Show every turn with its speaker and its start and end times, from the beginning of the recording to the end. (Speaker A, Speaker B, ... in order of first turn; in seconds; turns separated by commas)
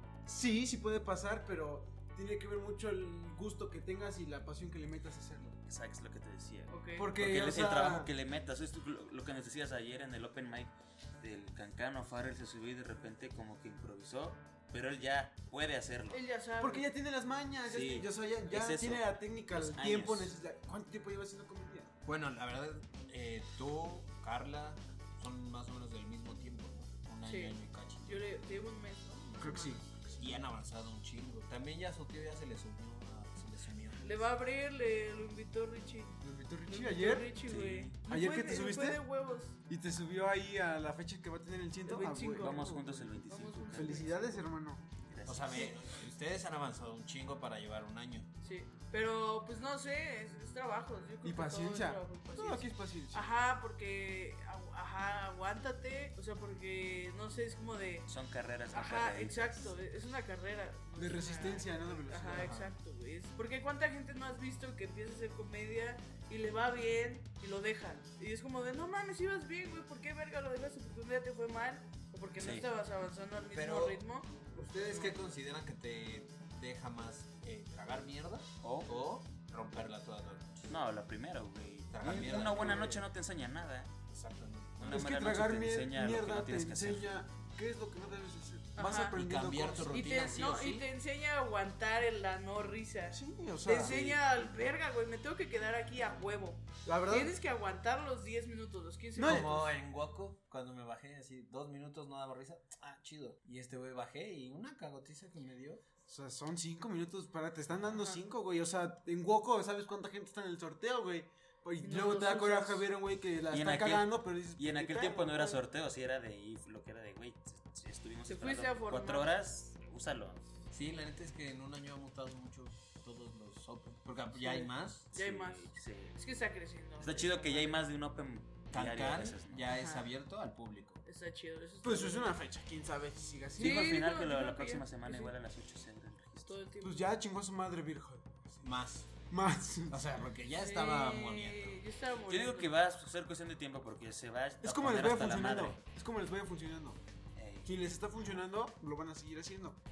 Speaker A: 0.2-5.6, Speaker B: 5.7-16.2, Speaker C: 6.7-7.1, Speaker A: 7.0-8.1, Speaker C: 16.1-16.9, Speaker A: 16.6-21.9, Speaker B: 17.7-20.3, Speaker D: 22.0-28.2, Speaker C: 27.2-30.4, Speaker A: 29.4-30.0, Speaker D: 30.2-34.2, Speaker C: 34.0-39.6, Speaker A: 36.2-37.4, Speaker B: 37.4-38.0, Speaker A: 38.0-39.0, Speaker A: 39.7-43.1, Speaker C: 41.9-42.7, Speaker B: 42.4-44.1, Speaker C: 43.3-44.5, Speaker A: 43.7-44.9, Speaker B: 45.1-45.7, Speaker D: 45.2-48.3, Speaker C: 48.4-58.1, Speaker A: 51.2-53.3, Speaker B: 58.1-59.7, Speaker C: 58.7-75.2, Speaker A: 61.0-62.6, Speaker D: 62.3-62.7, Speaker B: 72.4-72.7, Speaker D: 73.5-74.0, Speaker D: 74.5-80.7, Speaker B: 78.6-78.9, Speaker B: 80.7-83.9, Speaker D: 81.9-83.0, Speaker D: 84.1-85.0, Speaker B: 84.8-87.2, Speaker A: 84.8-90.6, Speaker C: 88.8-89.2, Speaker D: 89.0-90.9, Speaker C: 89.9-99.7, Speaker A: 93.1-94.0, Speaker D: 93.8-94.2, Speaker A: 96.8-97.3, Speaker A: 99.2-99.5, Speaker D: 99.2-105.8, Speaker A: 106.1-115.6, Speaker C: 107.9-108.2, Speaker C: 111.8-112.8, Speaker B: 113.5-120.5, Speaker C: 118.3-119.3, Speaker D: 120.7-125.1, Speaker A: 124.4-124.7, Speaker C: 125.1-127.8, Speaker B: 125.1-126.2, Speaker B: 127.0-129.7, Speaker D: 128.7-131.0, Speaker C: 129.7-130.1, Speaker C: 131.0-132.3, Speaker A: 131.8-134.0, Speaker B: 133.6-136.5, Speaker C: 133.6-135.3, Speaker C: 136.4-137.1, Speaker A: 136.8-138.7, Speaker D: 138.6-139.1, Speaker A: 139.3-140.0, Speaker D: 139.9-141.8, Speaker C: 140.5-142.7, Speaker B: 142.3-145.8, Speaker A: 144.6-147.0, Speaker B: 147.3-147.7, Speaker A: 147.6-149.8